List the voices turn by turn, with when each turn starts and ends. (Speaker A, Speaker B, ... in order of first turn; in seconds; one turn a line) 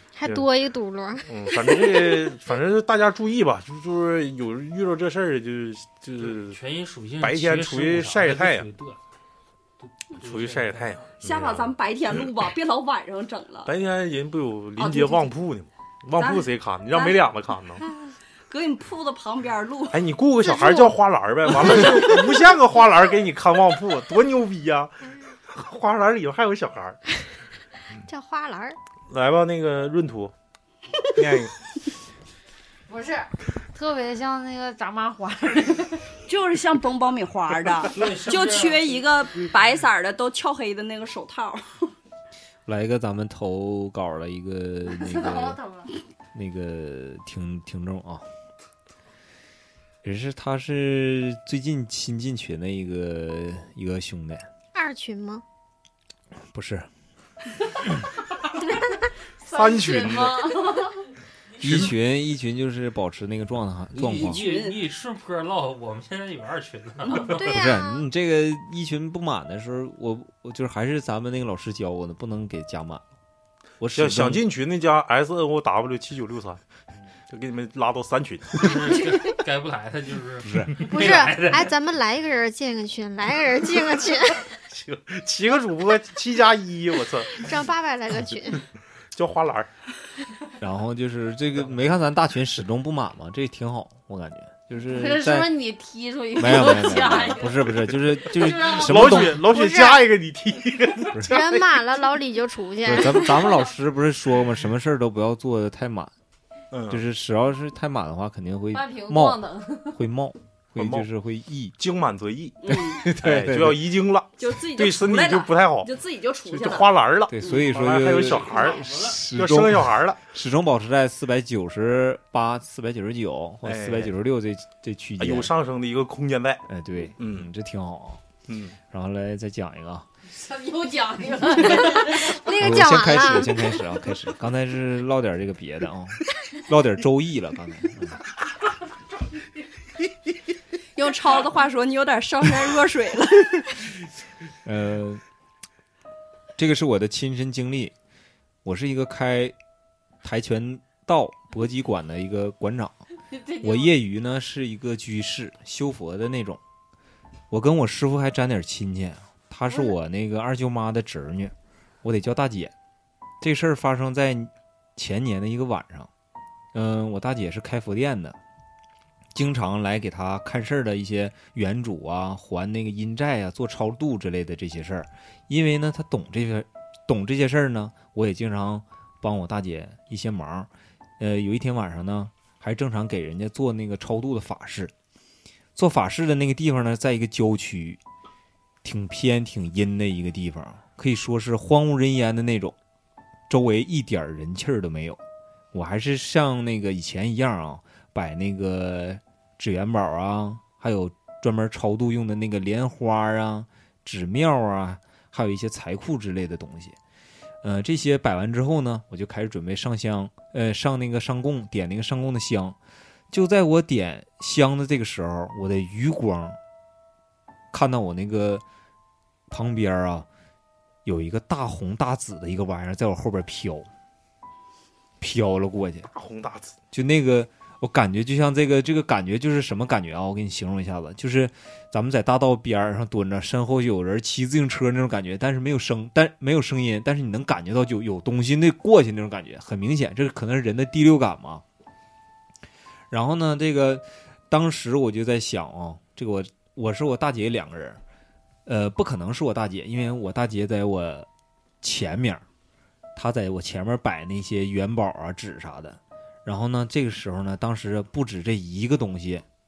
Speaker A: 0.1-1.3
Speaker B: 1.2-6.6
Speaker C: 6.2-9.0
Speaker B: 7.2-8.7
Speaker C: 9.8-10.9
Speaker B: 10.2-11.8
Speaker D: 11.2-13.7
Speaker B: 13.6-17.8
Speaker D: 14.8-15.3
Speaker D: 16.1-17.2
Speaker D: 18.5-20.0
Speaker B: 19.9-27.0
Speaker A: 20.6-20.9
Speaker D: 21.6-22.1
Speaker A: 28.0-28.8
Speaker B: 29.1-30.3
Speaker B: 31.1-31.5
Speaker E: 32.9-36.1
Speaker D: 36.2-41.9
Speaker C: 37.9-39.0
Speaker F: 42.6-45.6
Speaker E: 44.9-45.9
Speaker F: 46.3-48.2
Speaker F: 50.0-54.5
Speaker A: 54.7-55.4
Speaker F: 56.5-56.9
Speaker B: 59.5-60.6
Speaker E: 59.5-61.0
Speaker F: 61.6-64.4
Speaker B: 61.6-61.9
Speaker C: 63.9-67.5
Speaker D: 64.0-64.8
Speaker A: 67.2-68.0
Speaker F: 67.3-73.0
Speaker F: 73.8-74.4
Speaker B: 73.9-76.6
Speaker B: 77.3-79.0
Speaker C: 78.5-81.7
Speaker F: 80.4-80.8
Speaker A: 80.8-84.5
Speaker B: 84.7-87.5
Speaker A: 87.3-88.6
Speaker B: 89.1-89.7
Speaker F: 90.6-95.5
Speaker E: 94.9-97.6
Speaker F: 96.3-99.4
Speaker E: 98.3-99.3
Speaker B: 98.4-101.6
Speaker A: 99.4-100.0
Speaker F: 101.1-101.4
Speaker A: 101.3-103.5
Speaker F: 102.8-106.1
Speaker B: 106.7-107.0
Speaker F: 106.9-111.7
Speaker E: 108.7-110.0
Speaker B: 110.7-111.1
Speaker B: 111.8-115.9
Speaker D: 112.6-113.1
Speaker F: 112.9-114.0
Speaker D: 114.4-117.7
Speaker B: 116.4-120.2
Speaker F: 117.3-125.5
Speaker C: 118.1-119.2
Speaker B: 123.6-124.1
Speaker B: 125.2-126.6
Speaker F: 126.7-128.2
Speaker B: 127.2-127.5
Speaker B: 128.5-128.8
Speaker F: 128.9-130.1
Speaker E: 130.3-132.4
Speaker A: 131.8-133.6
Speaker F: 132.5-138.2
Speaker D: 140.9-143.9
Speaker F: 144.6-145.2
Speaker F: 146.6-147.9
Speaker F: 148.6-149.5
Speaker F: 150.2-153.0
Speaker E: 153.3-153.9
Speaker F: 153.6-156.6
Speaker F: 157.5-162.7
Speaker F: 163.4-166.1
Speaker F: 166.7-168.4
Speaker F: 169.3-184.9
Speaker F: 185.7-188.0
Speaker F: 188.8-192.8
Speaker F: 193.5-195.2
Speaker F: 195.7-207.0
Speaker F: 207.6-212.8
Speaker F: 213.3-216.6
Speaker F: 217.7-218.6
Speaker F: 219.5-220.3
Speaker F: 221.0-223.9
Speaker F: 225.2-226.1
Speaker B: 226.1-226.8
Speaker F: 226.9-241.6
Speaker F: 243.1-248.0
Speaker F: 248.7-251.3
Speaker F: 251.8-252.4
Speaker F: 253.1-259.4